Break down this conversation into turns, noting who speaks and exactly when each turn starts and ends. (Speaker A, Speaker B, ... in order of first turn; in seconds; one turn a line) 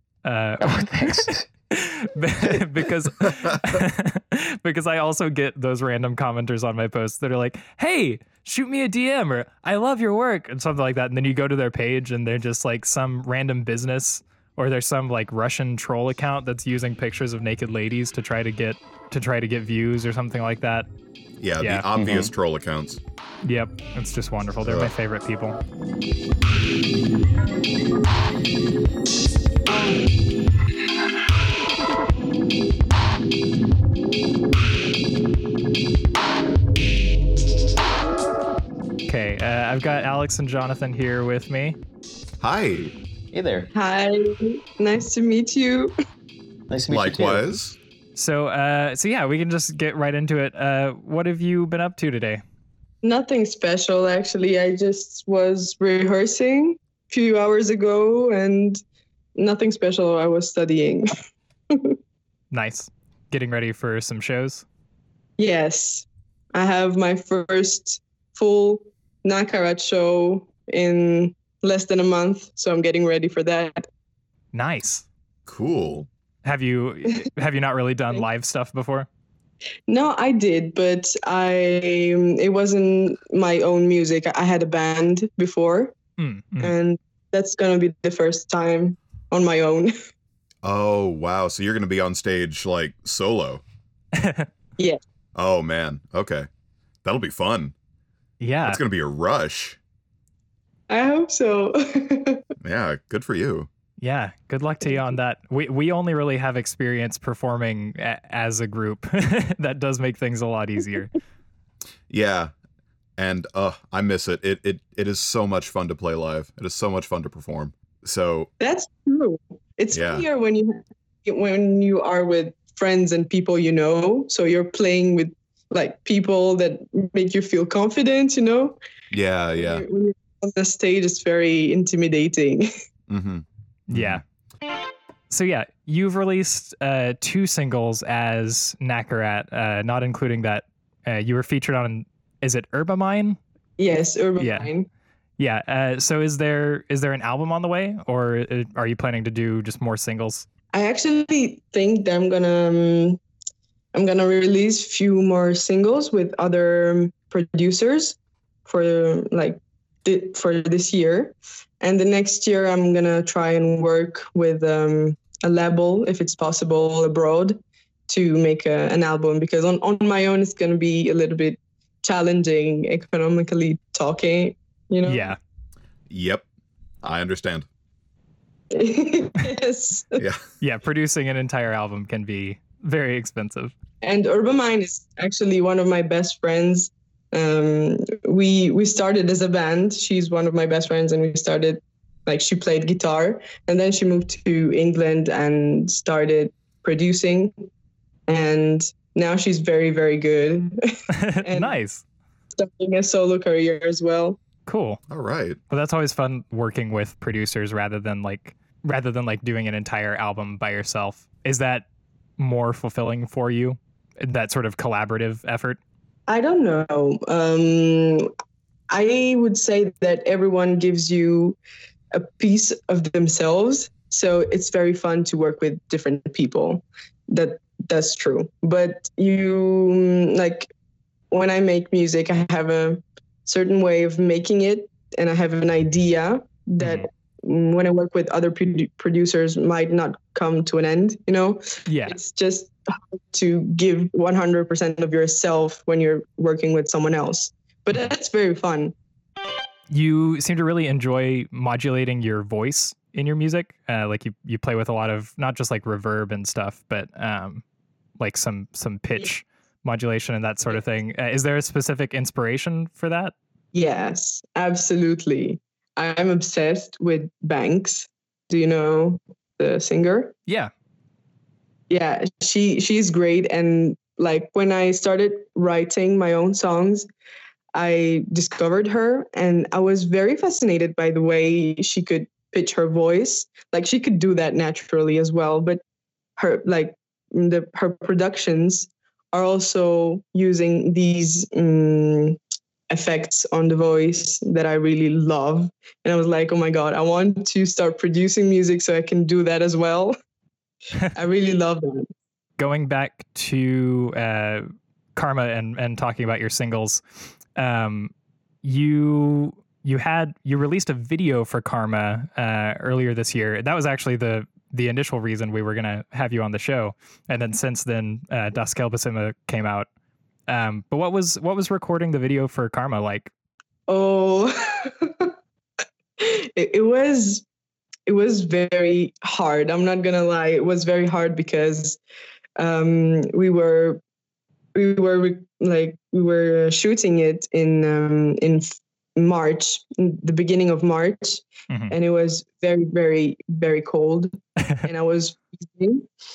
Speaker A: 0.2-20.9
Speaker B: 0.6-1.5
Speaker C: 21.4-23.0
Speaker A: 21.6-21.9
Speaker B: 21.9-22.3
Speaker A: 23.4-25.6
Speaker C: 24.6-24.9
Speaker A: 39.0-41.8
Speaker C: 42.4-42.9
Speaker B: 43.3-43.7
Speaker D: 43.7-45.9
Speaker B: 46.7-47.5
Speaker C: 46.9-47.8
Speaker A: 48.1-52.4
Speaker D: 53.0-58.8
Speaker D: 59.4-61.1
Speaker D: 61.7-62.0
Speaker A: 62.5-64.6
Speaker D: 65.4-73.9
Speaker A: 74.5-75.0
Speaker C: 75.5-76.1
Speaker A: 76.4-79.1
Speaker D: 79.9-85.9
Speaker A: 86.2-86.7
Speaker D: 86.6-89.9
Speaker C: 90.6-93.6
Speaker A: 94.1-94.5
Speaker C: 95.3-96.5
Speaker C: 97.0-97.7
Speaker A: 98.4-98.8
Speaker C: 98.6-99.8
Speaker D: 100.9-102.4
Speaker C: 102.6-103.7
Speaker A: 104.0-111.1
Speaker C: 112.1-112.5
Speaker C: 113.2-118.5
Speaker D: 118.6-128.8
Speaker C: 119.9-120.2
Speaker C: 129.1-129.8
Speaker D: 129.6-132.7
Speaker C: 133.1-134.2
Speaker A: 133.9-134.2
Speaker A: 135.3-143.4
Speaker D: 143.8-144.9
Speaker A: 144.4-144.7
Speaker A: 145.4-150.4
Speaker D: 150.7-153.2
Speaker D: 153.9-175.3
Speaker A: 175.0-175.4
Speaker C: 176.1-176.4
Speaker C: 177.0-177.7
Speaker D: 178.7-180.2
Speaker A: 180.6-183.7
Speaker D: 184.0-197.5
Speaker D: 198.3-201.8
Speaker A: 201.1-202.0
Speaker D: 202.6-204.4
Speaker A: 204.7-205.0
Speaker C: 205.1-205.6
Speaker A: 205.7-211.8
Speaker A: 212.4-215.8
Speaker D: 216.3-218.3
Speaker D: 218.9-221.6
Speaker D: 222.1-230.7
Speaker D: 231.3-248.9
Speaker A: 236.8-237.1
Speaker A: 241.8-242.2
Speaker A: 249.9-257.6
Speaker A: 258.2-263.3
Speaker D: 263.7-270.3
Speaker D: 271.9-277.1
Speaker D: 277.7-285.8
Speaker D: 286.4-292.4
Speaker D: 292.9-300.1
Speaker D: 301.1-302.1
Speaker A: 302.6-307.0
Speaker A: 307.5-308.1
Speaker A: 308.6-319.9
Speaker A: 320.5-323.3
Speaker D: 323.9-325.3
Speaker D: 326.2-327.4
Speaker D: 328.1-332.0
Speaker D: 332.6-334.0
Speaker D: 334.7-346.1
Speaker A: 341.7-341.9